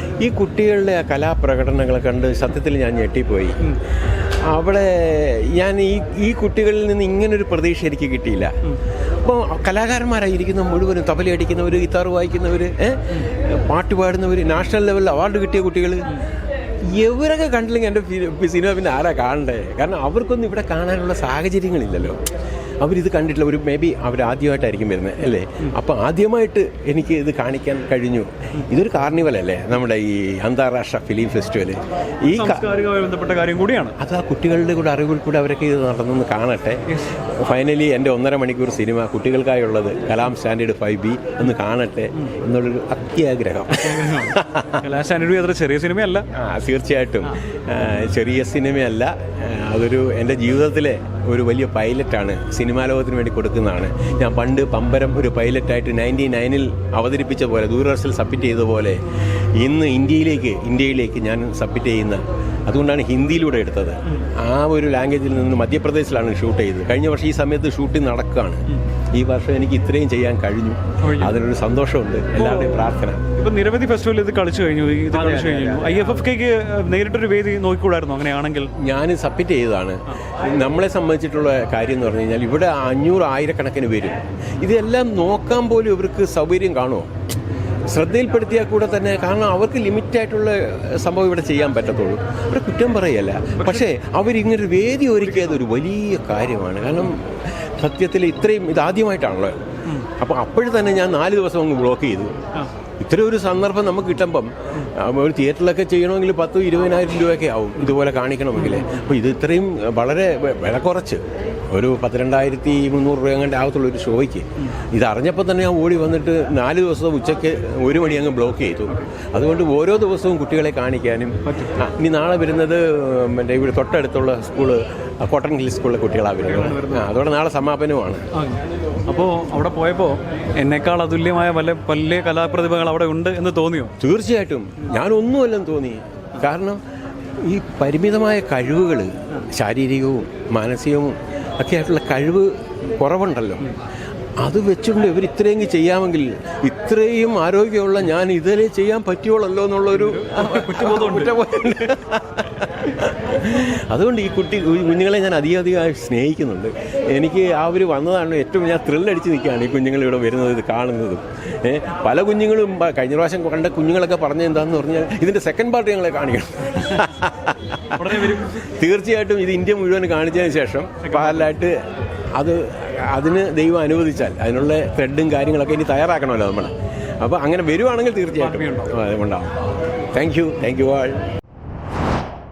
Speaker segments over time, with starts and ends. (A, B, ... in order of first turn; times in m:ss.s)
0:00.2-0:16.2 A
0:16.8-0:22.2 A
0:22.8-0:32.7 A
0:32.3-0:34.0 B
0:34.0-0:44.8 A
0:43.8-0:46.2 B
0:46.3-0:59.0 A
0:59.6-1:13.2 A
1:11.0-1:11.4 B
1:12.4-1:12.8 B
1:13.3-1:18.7 B
1:15.1-1:16.1 A
1:18.8-1:27.1 A
1:27.9-1:42.3 A
1:33.6-1:33.8 B
1:35.2-1:35.6 B
1:43.0-2:08.2 A
2:01.5-2:01.7 B
2:06.4-2:07.1 B
2:08.3-2:13.9 B
2:14.0-2:16.8 A
2:17.4-2:23.7 A
2:24.4-2:51.8 A
2:29.9-2:31.3 B
2:47.9-2:48.6 B
2:51.0-2:51.5 B
2:52.4-2:59.6 A
2:58.4-2:58.9 B
3:00.1-3:01.2 A